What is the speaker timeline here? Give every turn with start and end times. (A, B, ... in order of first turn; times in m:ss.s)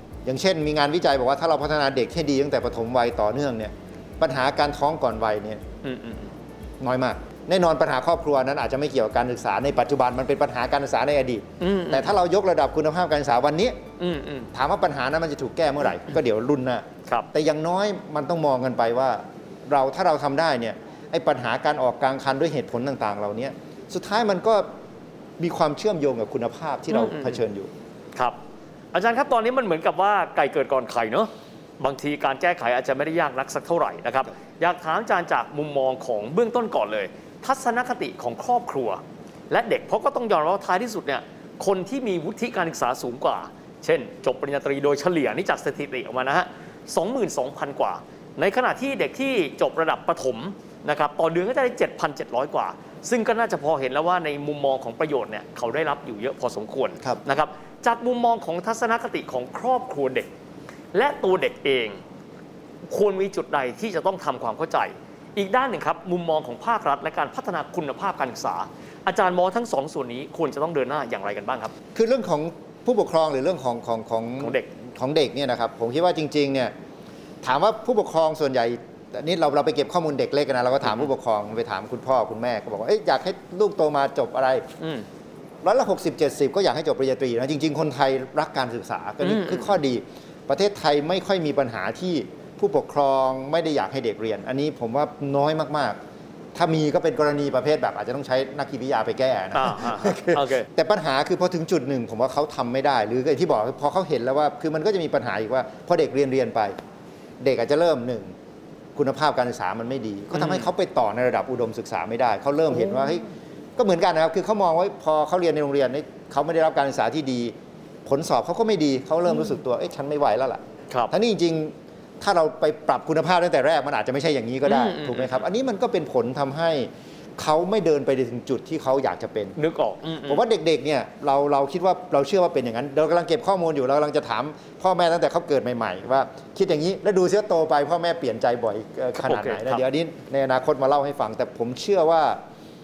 0:00.2-0:05.6 A
0:05.8-0:06.3 B
0:06.8-0:13.8 A
0:11.6-0:12.1 B
0:14.0-0:14.5 B
0:14.5-0:24.7 A
0:25.4-0:27.7 A
0:26.9-0:27.4 B
0:28.9-1:00.3 B
1:00.9-1:02.0 B
1:02.8-1:11.7 B
1:11.9-1:16.7 A
1:14.4-1:14.7 B
1:17.4-1:24.6 A
1:24.8-1:25.0 B
1:25.6-1:36.0 A
1:29.2-1:29.8 B
1:36.5-1:46.8 A
1:39.5-1:40.7 B
1:47.4-1:48.3 A
1:48.9-1:53.2 A
1:50.3-1:50.7 B
1:53.8-1:57.5 A
1:58.0-2:09.6 A
2:04.6-2:05.4 B
2:09.6-2:10.4 B
2:10.2-2:22.4 A
2:19.2-2:19.8 B